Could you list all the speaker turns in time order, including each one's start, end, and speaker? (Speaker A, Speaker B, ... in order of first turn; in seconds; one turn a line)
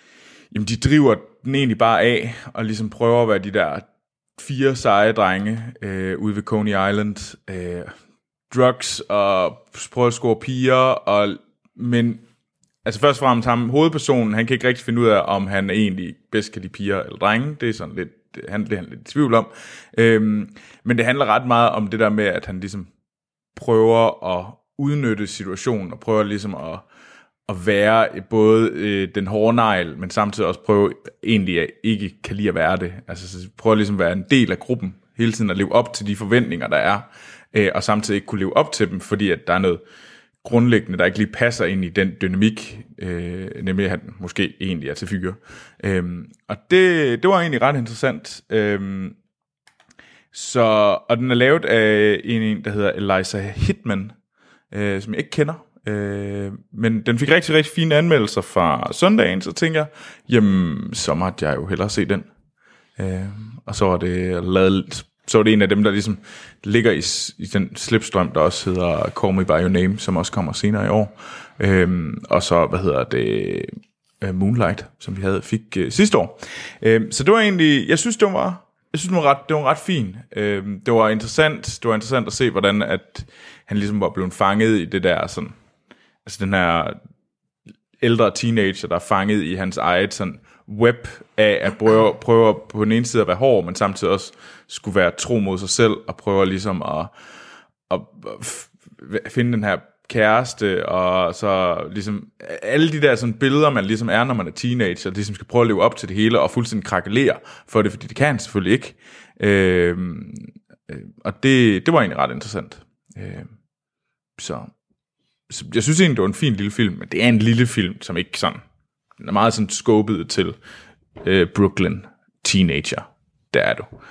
Speaker A: 0.5-7.9
Speaker A: 8.5-12.2
Speaker A: 12.8-22.9
Speaker A: 23.5-26.8
Speaker A: 27.5-39.8
Speaker A: 40.4-49.2
Speaker A: 50.3-54.1
Speaker A: 54.7-62.3
Speaker A: 63.0-85.5
Speaker A: 86.2-87.0
Speaker A: 88.0-97.1
Speaker A: 97.9-113.5
Speaker A: 114.4-114.7
Speaker A: 115.5-118.6
Speaker A: 119.2-120.6
Speaker A: 121.2-123.9